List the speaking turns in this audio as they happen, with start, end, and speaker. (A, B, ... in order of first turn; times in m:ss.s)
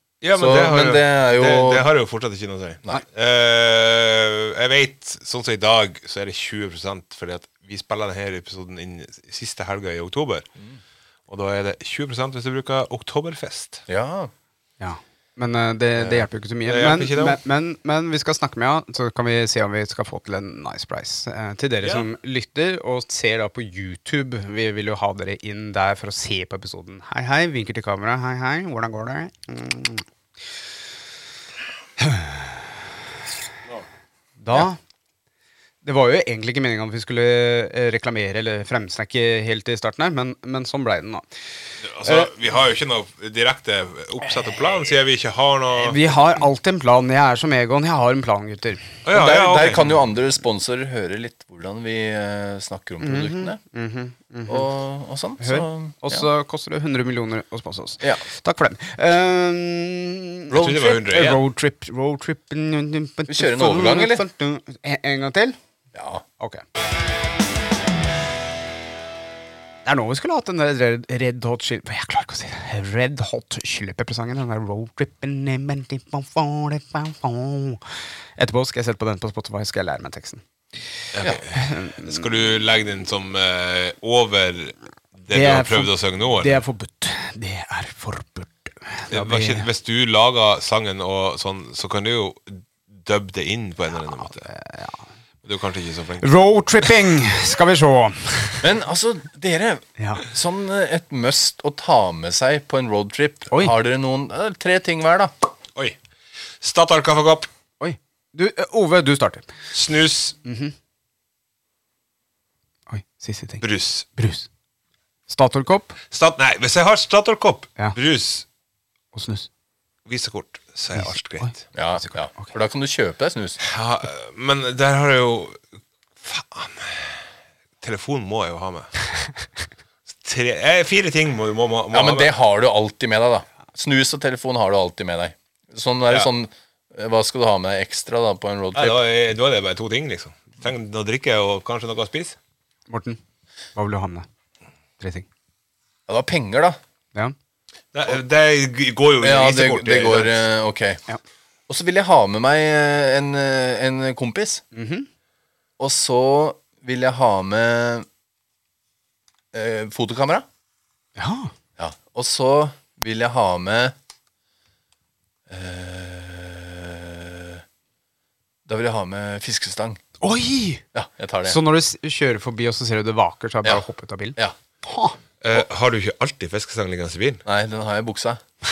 0:00.2-0:10.5 A
0:00.3-0:01.9 B
0:11.3-0:13.8 A
0:13.9-0:14.3 B
0:14.8-0:30.0 C
0:16.6-0:17.4 A
0:32.0-0:32.5 C
0:34.4-0:34.8 C
0:35.8-0:41.3 C
0:41.8-0:46.0 A
0:42.0-0:42.3 C
0:45.8-0:48.9 C
0:49.0-0:49.8 A
0:49.1-0:53.6 B
0:53.0-0:54.7 C
0:54.5-0:56.3 B
0:55.4-1:05.6 C
1:00.5-1:01.0 B
1:00.5-1:01.4 A
1:03.3-1:04.2 B
1:05.9-1:06.2 B
1:09.8-1:17.8 C
1:18.4-1:20.4 C
1:21.1-1:26.6 A
1:21.5-1:22.2 C
1:25.3-1:29.7 C
1:29.1-1:34.5 A
1:34.2-1:35.0 C
1:35.4-1:36.3 A
1:36.2-1:38.6 C
1:38.6-1:45.3 B
1:40.0-1:40.2 C
1:46.6-1:47.5 A
1:47.8-1:49.5 C
1:49.7-1:50.4 A
1:50.4-1:50.7 C
1:52.9-1:53.6 C
1:53.6-1:54.1 A
1:54.2-1:54.5 C
1:55.3-1:56.0 C
1:56.1-1:58.4 A
1:59.1-1:59.5 C
2:00.1-2:01.6 A
2:01.0-2:02.5 C
2:01.7-2:03.6 B
2:03.6-2:05.6 A
2:06.2-2:07.2 A
2:07.8-2:09.0 A
2:10.1-2:12.3 A
2:11.9-2:19.0 B
2:18.8-2:22.4 A
2:22.9-2:23.2 C
2:23.8-2:24.3 C
2:25.0-2:25.3 C
2:26.1-2:26.8 B
2:27.9-2:30.3 A
2:29.2-2:31.0 B
2:31.7-2:34.6 B
2:34.7-2:35.1 C
2:35.8-2:38.1 B
2:39.5-2:40.5 B
2:41.2-2:41.5 C
2:41.8-2:44.0 B
2:45.5-2:47.6 B
2:48.7-2:50.0 B
2:50.2-2:50.8 C
2:50.9-2:51.6 B
2:51.4-2:55.2 C
2:55.4-2:57.4 A
2:57.4-2:58.4 B